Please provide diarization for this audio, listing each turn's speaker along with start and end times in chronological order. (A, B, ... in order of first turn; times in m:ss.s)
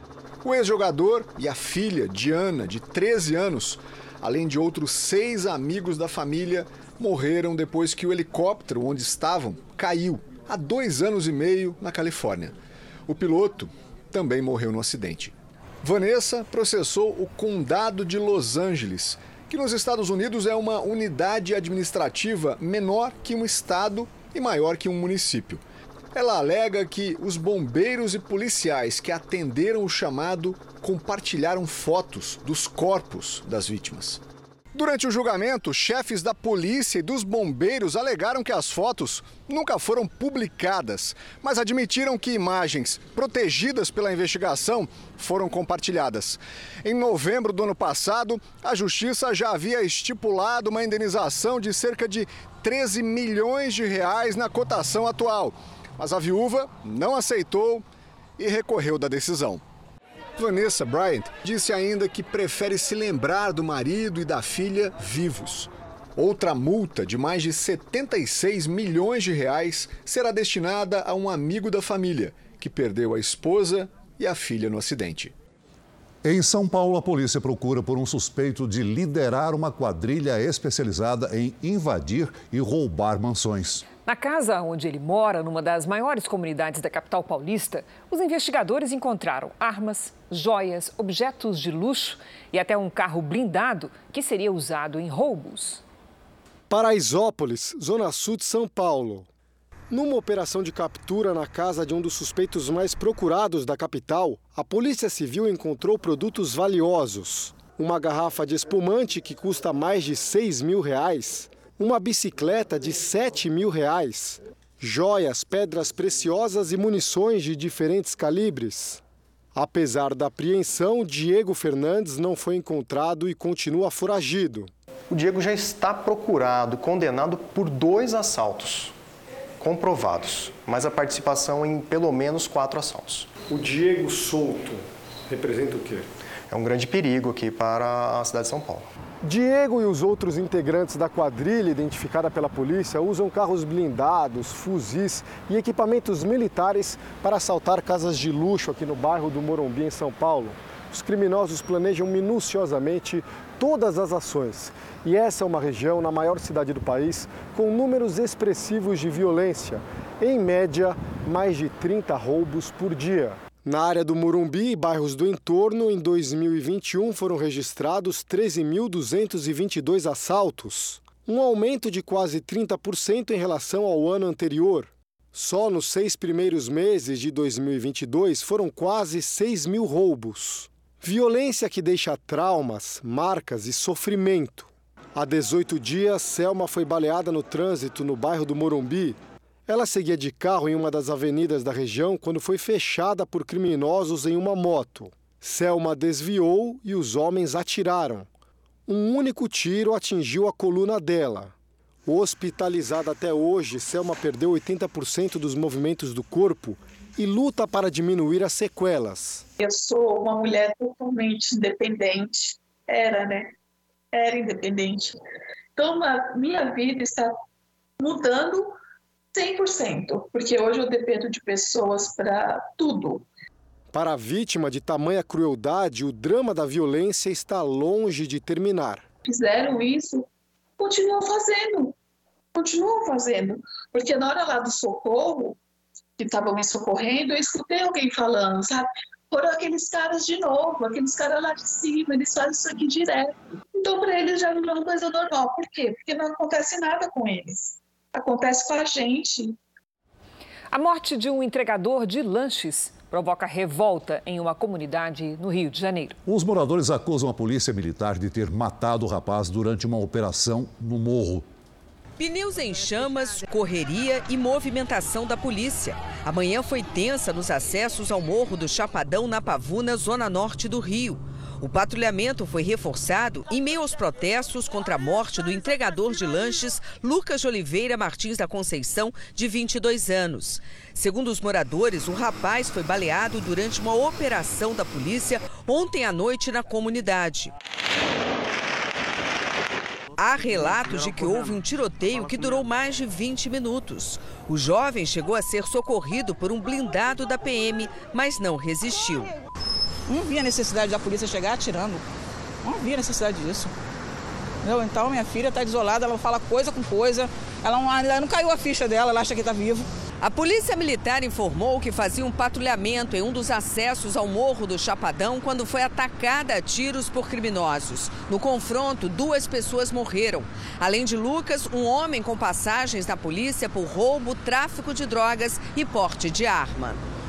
0:00.4-0:12.6 A
0:13.1-0:25.6 A
0:26.1-0:34.2 A
0:34.7-0:57.8 A
0:58.4-0:59.6 A
1:00.4-1:15.3 A
1:16.2-1:23.8 B
1:24.0-1:35.8 C
1:36.7-1:39.3 D
1:39.9-1:59.0 D
1:59.6-2:04.7 D
2:05.1-2:08.9 E
2:09.6-2:13.2 E
2:13.5-2:14.8 D
2:15.3-2:16.0 D
2:16.5-2:18.8 E
2:19.2-3:18.3 D
3:18.9-3:21.5 D
3:22.1-3:29.4 D
3:29.6-3:33.5 F
3:34.1-3:35.2 F
3:35.8-3:37.4 F
3:38.0-3:38.8 F
3:39.3-3:43.2 F
3:43.9-3:49.0 D
3:49.3-3:50.2 F
3:50.8-3:51.9 F
3:52.6-3:55.6 F
3:56.2-4:09.5 F
4:10.7-4:16.2 C
4:16.3-4:21.5 B
4:22.2-4:47.5 G
4:50.2-4:59.3 G
5:04.9-5:05.7 H
5:07.7-5:08.3 H
5:09.3-5:09.6 H
5:10.2-5:27.0 G